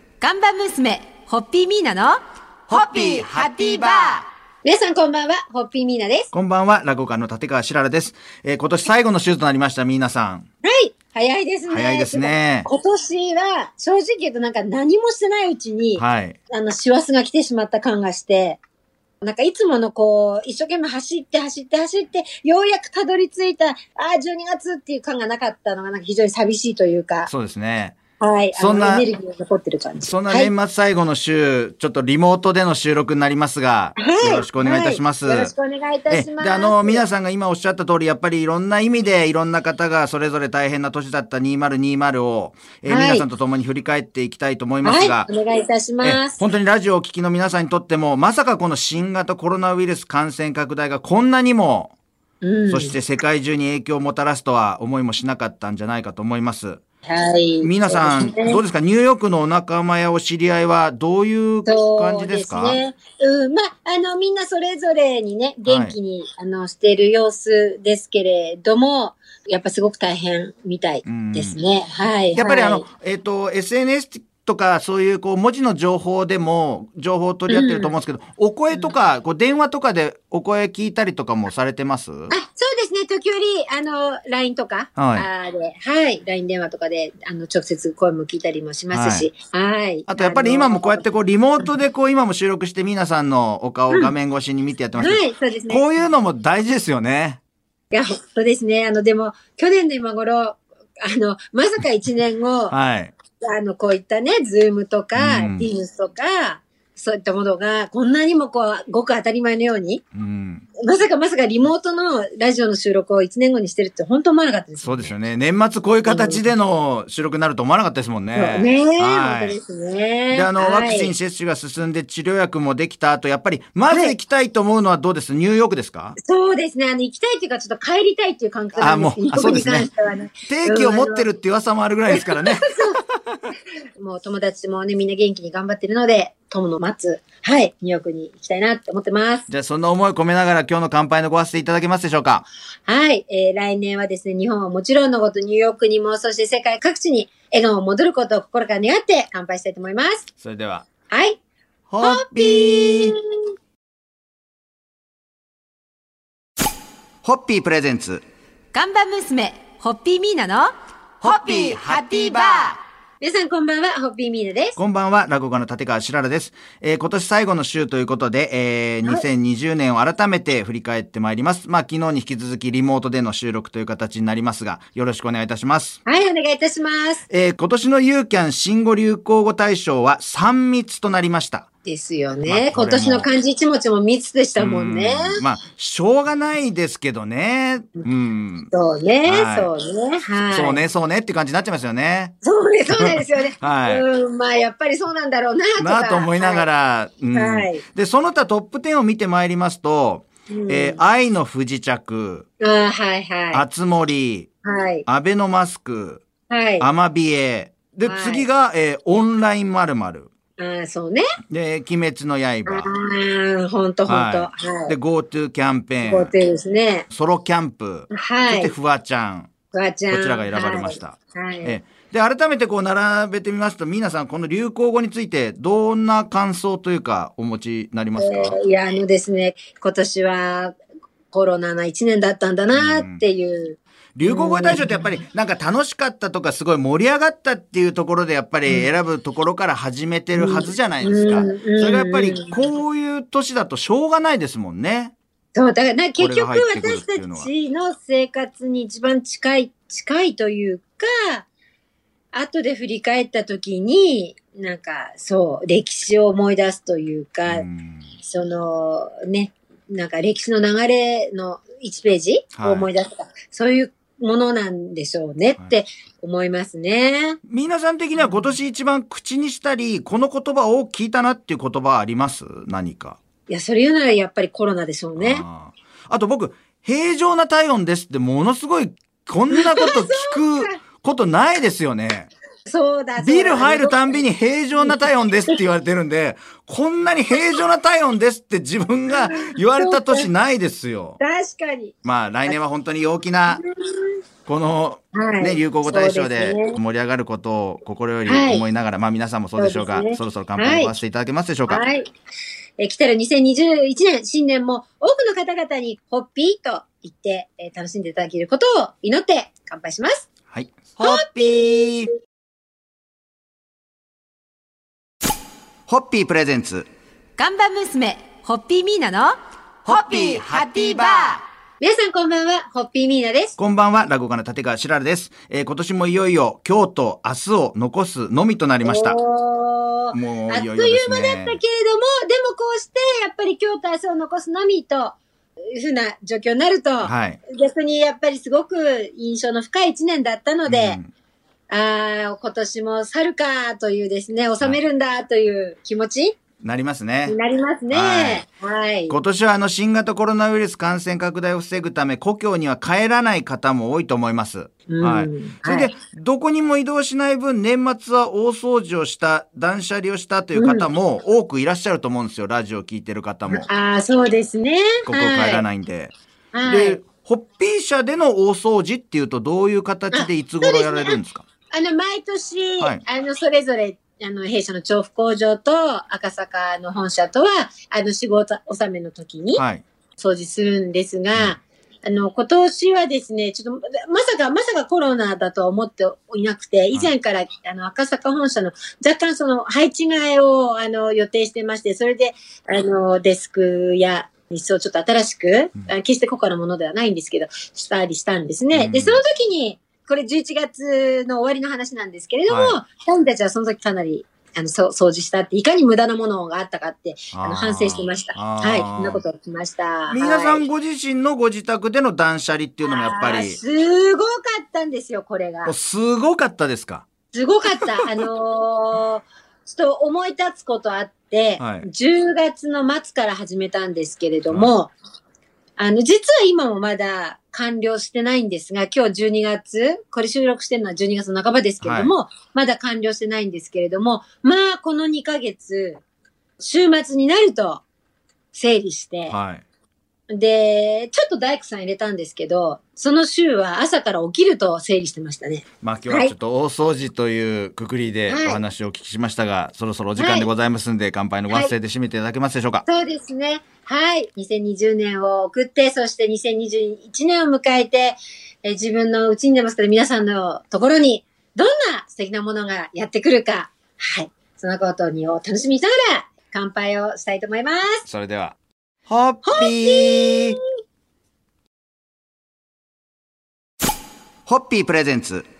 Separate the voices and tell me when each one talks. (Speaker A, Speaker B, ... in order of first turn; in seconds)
Speaker A: 0.2-2.2, 2.7-4.2, 158.7-160.7, 161.2-162.6, 317.4-321.4
Speaker B: 2.7-4.2, 6.3-10.5, 11.7-12.7, 16.0-16.4, 27.3-28.0, 28.5-29.1, 30.0-35.5, 36.1-45.3, 46.0-51.9, 52.7-56.8, 57.6-62.8, 65.7-66.0, 71.0-71.6, 72.3-82.3, 85.0-85.3, 88.9-89.3, 90.1-97.4, 102.7-103.1, 105.1-105.7, 110.1-110.6, 114.8-119.6, 120.3-126.2, 128.8-129.9, 130.5-132.7, 139.5-142.5, 150.4-150.9, 151.9-153.1, 157.2-158.2, 161.2-162.8, 164.8-176.0, 177.3-181.7, 182.5-183.3, 184.6-188.7, 189.2-189.7, 190.4-192.3, 192.9-194.0, 195.8-202.4, 203.5-204.5, 205.1-206.2, 206.8-210.3, 211.5-212.9, 214.1-216.3, 217.1-219.5, 220.1-228.6, 232.7-233.2, 234.2-245.1, 246.2-247.5, 257.4-258.1, 262.6-262.9, 267.5-273.2, 275.2-282.3, 283.2-291.2, 292.0-293.6, 294.4-301.8, 310.5-312.1, 315.9-316.9, 319.9-320.7, 323.6-329.2, 330.1-331.6, 337.0-337.4, 340.6-341.1, 346.6-347.4, 347.9-348.4, 349.1-363.7, 365.1-366.1, 366.6-371.4, 379.5-379.8, 398.7-399.2, 402.5-402.8, 407.3-409.2, 410.1-413.6, 415.6-417.1, 421.6-421.9, 424.5-424.7, 431.8-432.1, 439.3-439.6, 445.8-452.9, 468.1-468.6, 469.1-470.6, 474.4-475.4
Speaker C: 4.6-6.3, 10.6-18.6, 19.2-27.3, 28.2-30.5, 34.0-37.0, 42.9-43.3, 44.8-46.4, 52.4-52.9, 57.0-58.6, 61.6-72.8, 77.5-78.0, 82.3-91.1, 95.0-95.8, 97.9-102.7, 103.4-110.0, 110.8-115.2, 116.0-116.5, 118.3-121.1, 123.9-124.2, 126.2-131.3, 132.1-133.0, 134.0-139.5, 142.8-150.2, 151.1-151.4, 152.0-153.2, 163.2-164.8, 176.1-177.2, 181.8-185.3, 188.7-190.8, 192.4-196.7, 197.3-197.8, 200.5-201.0, 202.6-203.6, 204.6-205.0, 206.5-206.9, 208.1-208.4, 210.6-211.2, 212.7-214.9, 216.0-217.1, 218.1-218.7, 219.7-221.8, 228.2-230.8, 231.3-235.1, 240.3-242.6, 245.5-251.5, 252.3-257.6, 258.2-267.4, 268.1-268.5, 273.5-275.4, 279.5-280.8, 282.7-284.2, 284.8-285.6, 289.1-290.3, 291.2-291.9, 293.5-294.1, 295.1-296.8, 298.2-298.6, 299.6-300.9, 301.7-302.1, 302.8-310.2, 311.0-311.8, 321.8-323.6, 328.8-335.2, 335.7-341.0, 341.7-346.4, 347.3-349.2, 354.9-355.9, 360.5-360.9, 363.5-365.6, 366.5-367.0, 370.1-371.2, 371.7-379.6, 380.2-410.6, 412.8-415.7, 417.3-424.9, 425.8-436.0, 436.6-437.8, 438.5-439.4, 440.3-446.3, 448.3-448.6, 450.1-450.5, 452.9-468.0, 469.4-470.6